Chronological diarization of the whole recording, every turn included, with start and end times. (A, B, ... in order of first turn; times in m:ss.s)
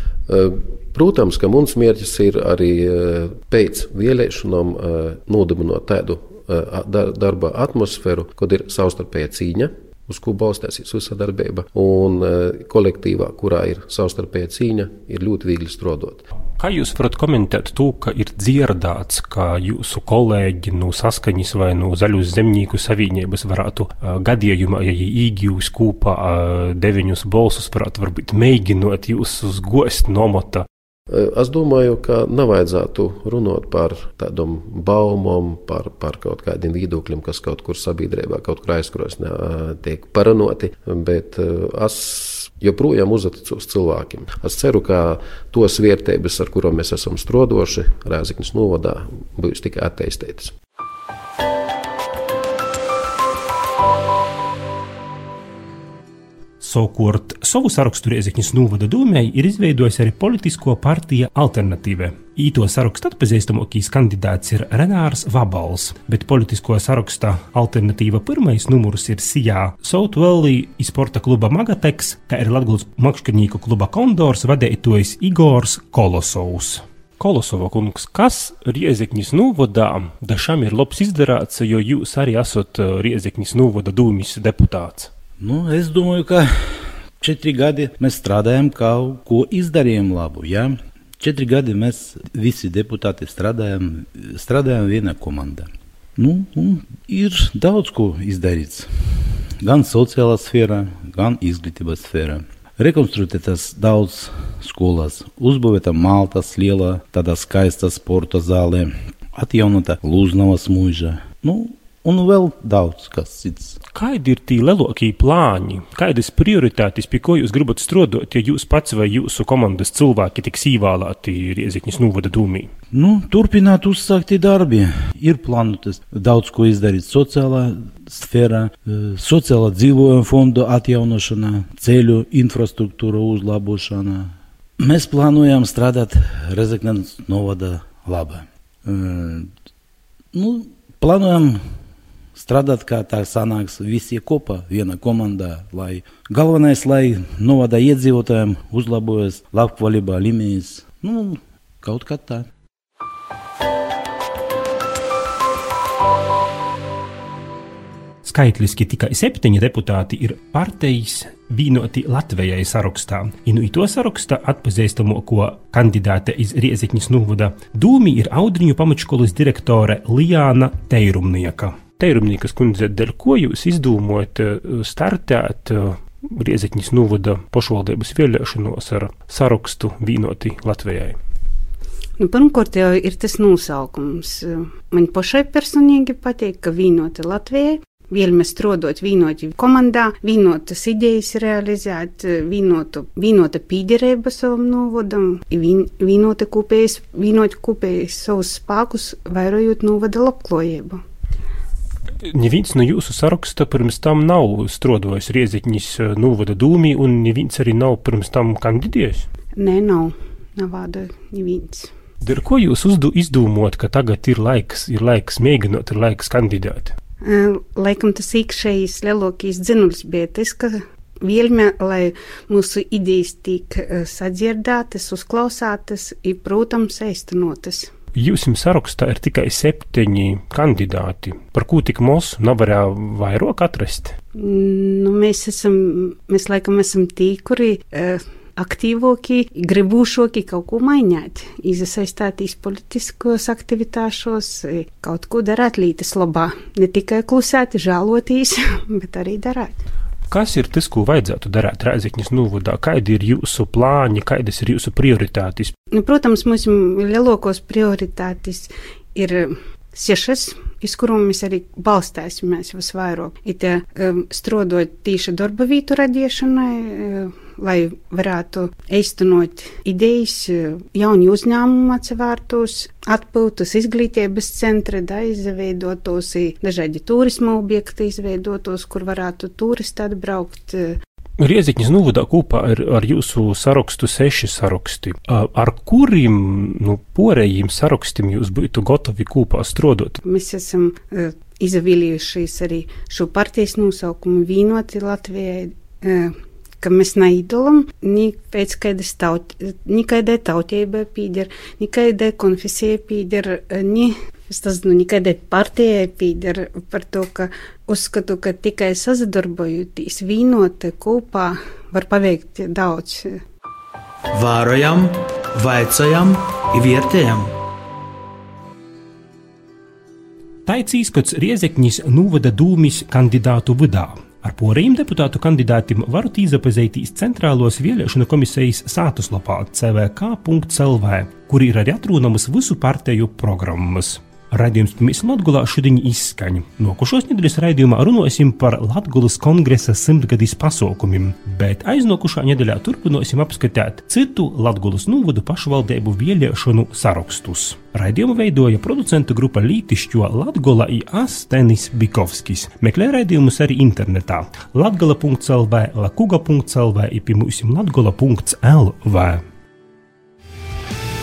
0:00.3-0:16.2 A
0:16.6-0:30.7 B
0:31.1-0:50.5 A
0:56.6-1:25.1 B
1:25.4-1:53.8 C
1:53.9-2:02.7 B
2:02.9-2:19.5 C
2:20.3-2:21.7 C
2:22.3-2:32.5 C
2:38.2-3:01.2 B
3:02.2-3:21.0 D
3:22.2-3:29.3 B
3:29.5-3:31.9 D
3:32.2-3:36.9 B
3:37.2-3:47.9 D
3:48.1-3:54.2 B
3:54.4-4:09.8 D
4:10.3-4:15.7 B
4:15.9-4:41.0 D
4:41.4-4:50.2 B
4:50.2-5:13.4 D
5:14.3-5:17.5 E
5:20.6-5:59.4 B